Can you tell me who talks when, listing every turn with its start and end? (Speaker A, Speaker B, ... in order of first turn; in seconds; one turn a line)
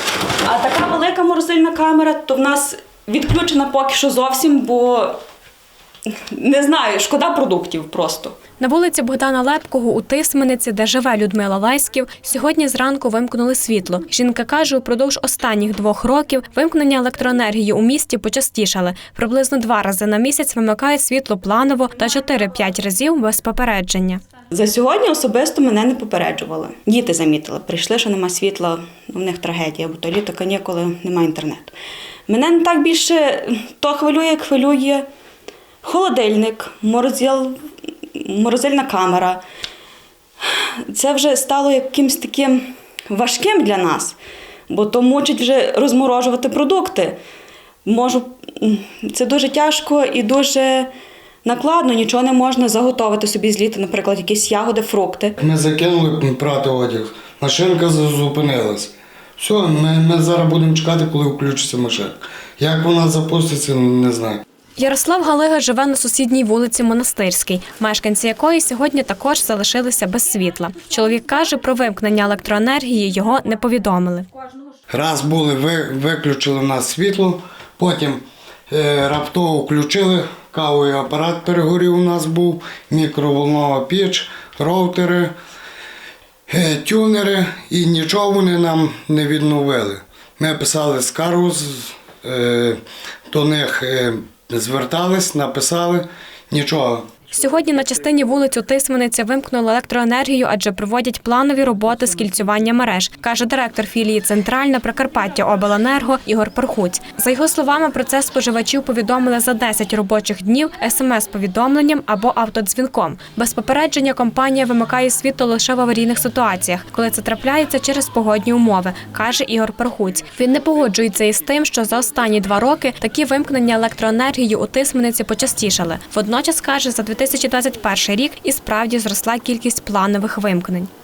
Speaker A: 0.4-5.2
Speaker A: 6.1-8.4
Speaker B: 8.6-24.2
Speaker A: 24.5-31.8
Speaker A: 32.3-35.0
Speaker A: 35.8-37.6
Speaker A: 38.1-39.4
Speaker A: 40.5-44.1
Speaker A: 44.7-47.2
Speaker A: 47.8-50.9
Speaker A: 51.4-55.4
Speaker C: 55.4-64.4
Speaker B: 64.8-74.3
Speaker C: 74.9-85.3
Speaker C: 86.5-97.1
Speaker B: 97.3-130.9